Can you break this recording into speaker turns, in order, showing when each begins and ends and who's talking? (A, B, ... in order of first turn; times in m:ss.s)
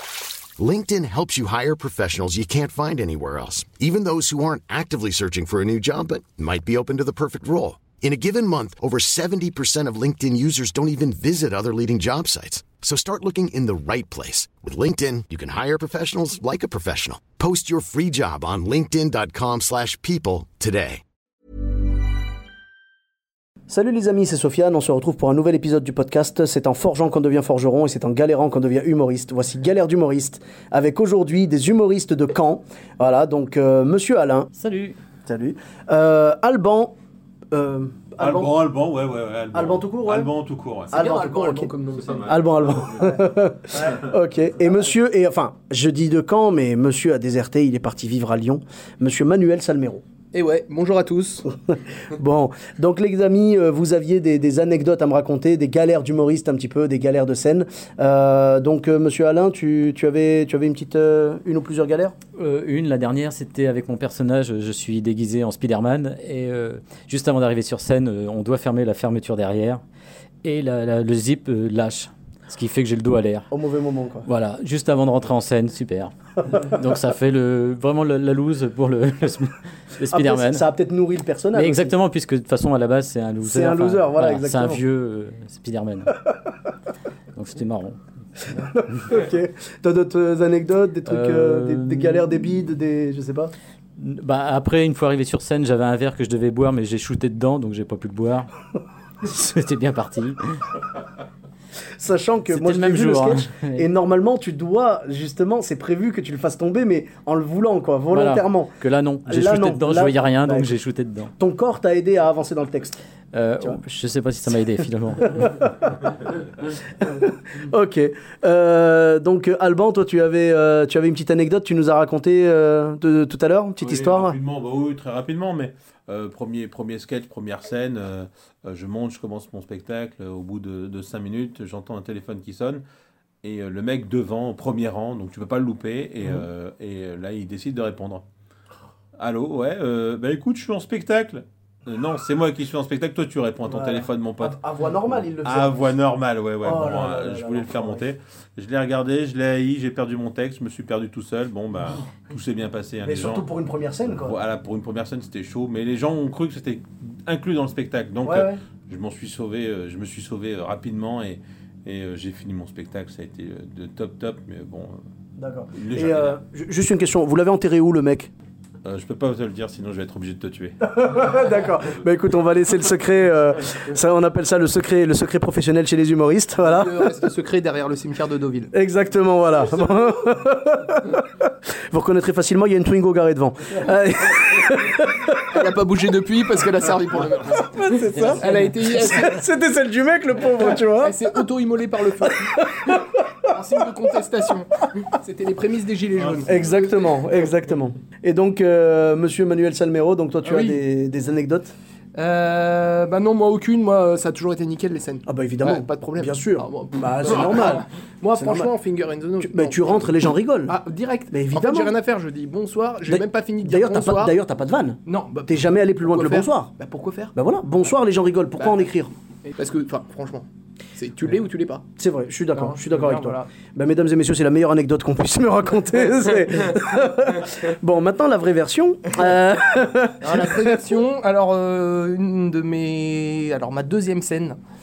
0:00.6-0:21.0 A
0:23.7-0:34.5 B
0:34.6-0:35.0 C
0:35.3-0:37.0 B
0:37.5-0:38.6 B
0:38.2-0:41.0 D
0:39.5-0:40.3 B
0:40.9-0:42.4 E
0:40.9-0:41.7 B
0:42.0-0:43.2 D
0:42.2-0:50.0 B
0:50.3-0:51.5 E
0:51.7-1:02.2 B
1:02.4-1:09.8 C
1:10.4-1:13.5 C
1:13.5-1:14.3 B
1:14.3-1:20.7 C
1:20.1-1:22.0 B
1:21.5-1:26.2 C
1:23.4-1:24.8 B
1:27.4-1:28.0 C
1:28.6-1:33.5 B
1:31.1-1:32.4 C
1:34.0-1:38.5 C
1:39.2-1:40.6 C
1:42.0-1:50.8 B
1:42.5-1:43.9 C
1:48.1-1:51.3 C
1:51.4-1:53.0 B
1:53.3-1:55.6 C
1:57.0-2:04.4 B
2:03.8-2:12.8 D
2:13.4-2:18.2 D
2:19.2-2:24.6 D
2:23.6-2:25.7 B
2:25.4-2:33.5 D
2:26.6-2:28.0 B
2:33.0-2:34.4 B
2:34.1-2:45.0 D
2:38.2-2:38.6 B
2:45.4-2:48.3 B
2:45.7-2:46.4 D
2:48.8-2:50.8 D
2:50.8-2:57.1 B
2:56.6-2:58.7 E
2:58.7-3:05.4 B
3:05.5-3:09.4 E
3:07.7-3:11.2 B
3:10.7-3:12.6 E
3:12.2-3:13.2 B
3:13.5-3:16.5 E
3:16.2-3:16.8 D
3:16.4-3:21.7 B
3:20.4-3:20.8 E
3:22.2-3:30.1 E
3:25.3-3:28.7 B
3:29.4-3:30.8 B
3:30.7-3:34.3 E
3:31.3-3:31.9 B
3:33.1-3:36.7 B
3:35.1-3:37.3 E
3:37.4-3:39.1 B
3:38.6-3:38.8 E
3:39.4-3:41.8 E
3:42.0-3:50.7 B
3:42.5-3:43.5 E
3:50.2-3:54.6 E